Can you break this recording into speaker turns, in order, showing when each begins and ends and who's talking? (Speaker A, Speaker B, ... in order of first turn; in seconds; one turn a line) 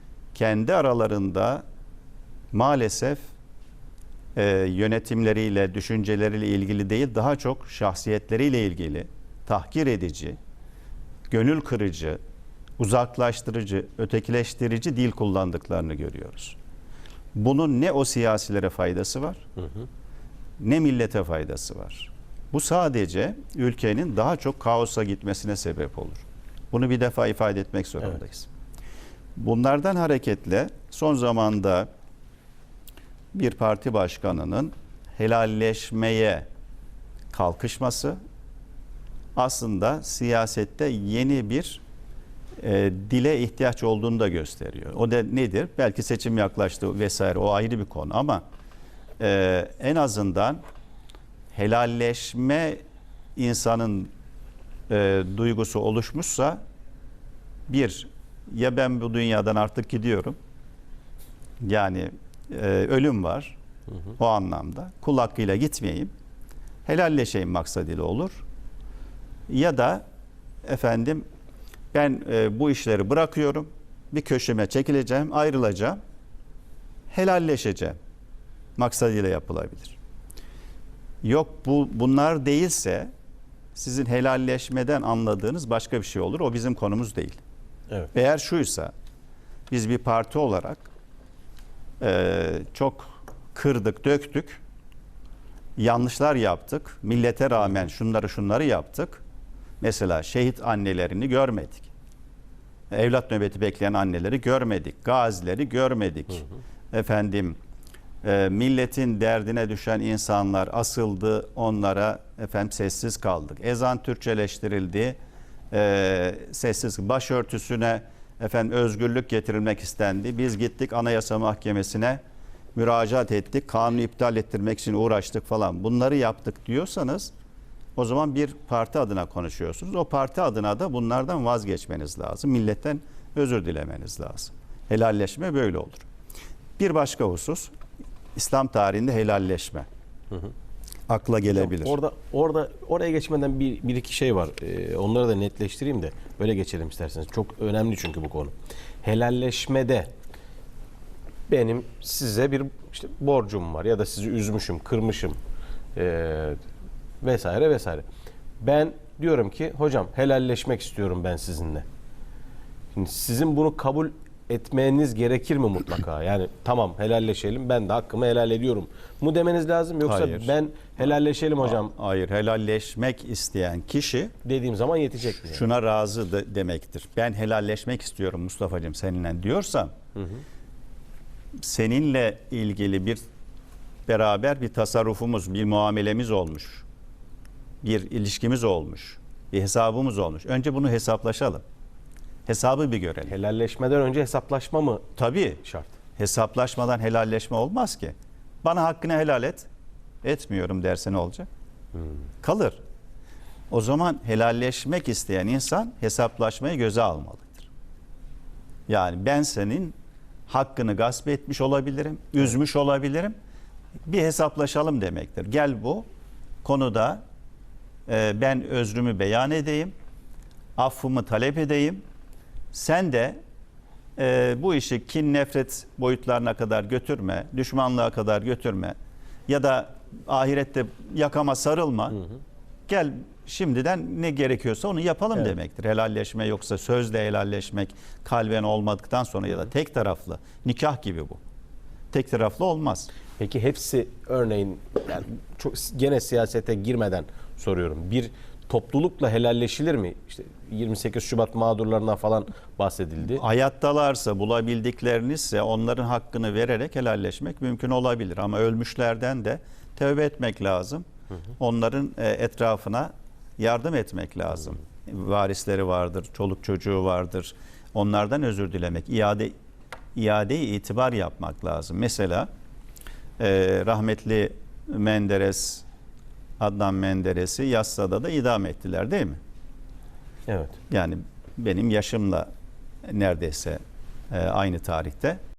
Speaker A: 0.3-1.6
Speaker A: 2.5-3.2
Speaker A: 4.3-10.4
Speaker A: 11.3-12.2
Speaker A: 12.8-16.6
Speaker A: 17.3-19.4
Speaker A: 20.6-28.5
Speaker A: 29.4-31.9
Speaker A: 33.3-36.5
Speaker A: 37.3-38.2
Speaker A: 39.4-41.8
Speaker A: 42.6-48.4
Speaker A: 49.2-50.6
Speaker A: 51.5-52.8
Speaker A: 53.4-54.1
Speaker A: 54.9-56.6
Speaker A: 57.7-60.4
Speaker A: 61.6-63.6
Speaker A: 64.2-66.1
Speaker A: 66.8-68.4
Speaker A: 69.5-70.0
Speaker A: 70.6-71.2
Speaker A: 71.9-76.0
Speaker A: 77.1-78.0
Speaker A: 78.8-80.0
Speaker A: 81.2-83.1
Speaker A: 83.8-87.4
Speaker A: 88.1-88.9
Speaker A: 89.7-90.9
Speaker A: 92.0-94.6
Speaker A: 95.8-99.2
Speaker A: 99.8-101.9
Speaker A: 102.9-107.6
Speaker A: 108.2-115.2
Speaker A: 115.7-122.2
Speaker A: 122.7-127.3
Speaker A: 128.0-136.1
Speaker A: 136.8-137.7
Speaker A: 138.3-139.8
Speaker A: 141.1-142.0
Speaker B: 141.5-150.1
Speaker B: 151.5-155.4
Speaker B: 155.9-156.6
Speaker B: 157.2-158.0
Speaker B: 158.6-161.8
Speaker B: 162.9-171.9
Speaker A: 170.0-170.5
Speaker A: 171.6-174.3
Speaker B: 174.4-175.6
Speaker A: 175.3-179.9
Speaker B: 180.2-180.4
Speaker A: 181.6-183.2
Speaker A: 184.1-186.8
Speaker A: 187.8-191.6
Speaker A: 192.4-193.3
Speaker B: 193.3-195.1
Speaker A: 195.2-195.6
Speaker B: 195.6-195.9
Speaker A: 196.2-199.7
Speaker A: 200.2-201.5
Speaker A: 202.4-202.8
Speaker A: 203.7-207.7
Speaker A: 208.9-209.9
Speaker A: 210.5-213.3
Speaker A: 214.1-216.1
Speaker A: 216.6-217.2
Speaker A: 218.1-219.9
Speaker A: 220.8-222.0
Speaker A: 222.7-223.4
Speaker A: 224.2-228.9
Speaker A: 229.5-232.2
Speaker A: 232.9-241.4
Speaker A: 242.1-243.1
Speaker B: 243.4-253.4
Speaker A: 253.2-261.0
Speaker A: 261.6-269.5
Speaker A: 270.1-272.5
Speaker A: 273.4-275.8
Speaker A: 276.6-279.4
Speaker B: 280.5-280.8
Speaker A: 280.9-282.5
Speaker A: 283.1-285.4